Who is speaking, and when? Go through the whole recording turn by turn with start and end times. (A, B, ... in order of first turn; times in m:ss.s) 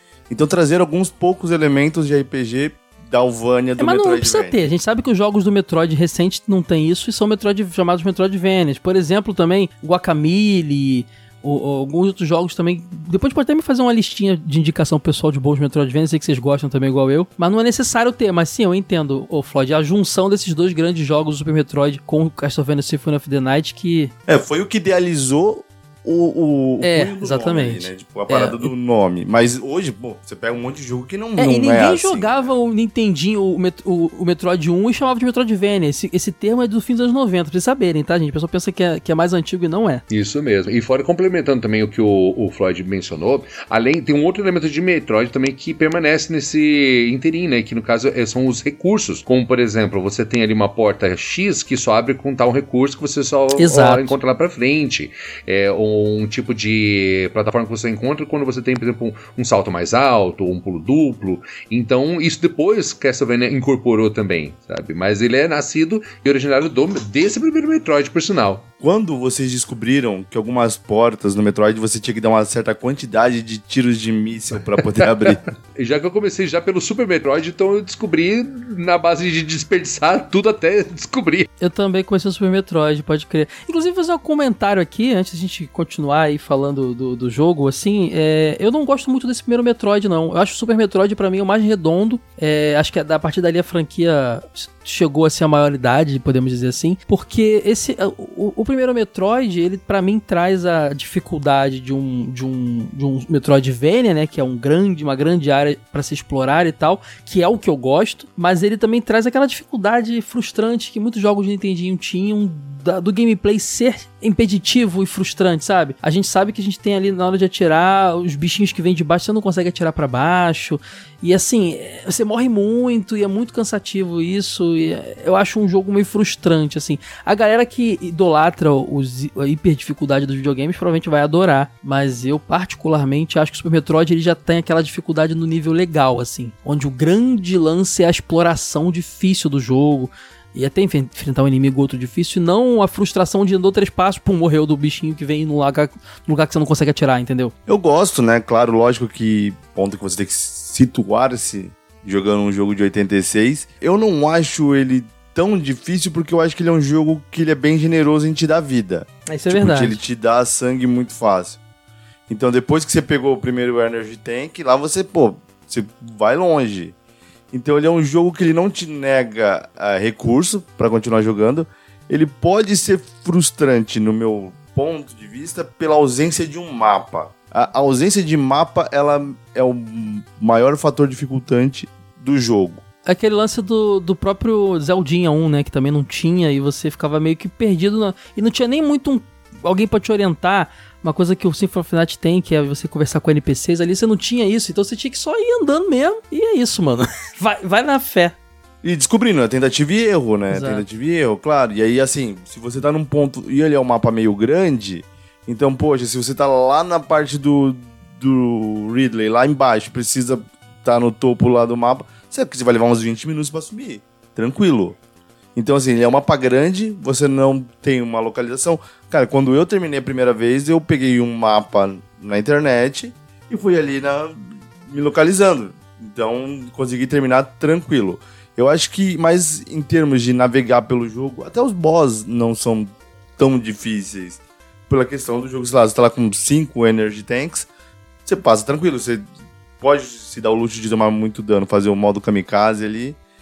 0:00.3-0:04.6 A
0:03.8-0:24.1 B
0:24.3-0:32.5 A
0:26.8-0:28.7 B
0:31.4-0:40.0 B
0:40.1-1:08.6 C
0:53.6-0:54.1 B
1:08.8-1:15.4 A
1:15.0-1:21.5 C
1:21.6-2:27.5 B
2:27.7-2:41.6 A
2:39.3-2:40.0 B
2:42.3-2:47.0 A
2:47.5-3:02.8 A
3:03.1-3:18.4 B
3:18.8-3:35.0 A
3:20.5-3:20.8 B
3:35.6-3:57.7 A
3:58.2-3:59.2 A
3:59.8-4:03.2 A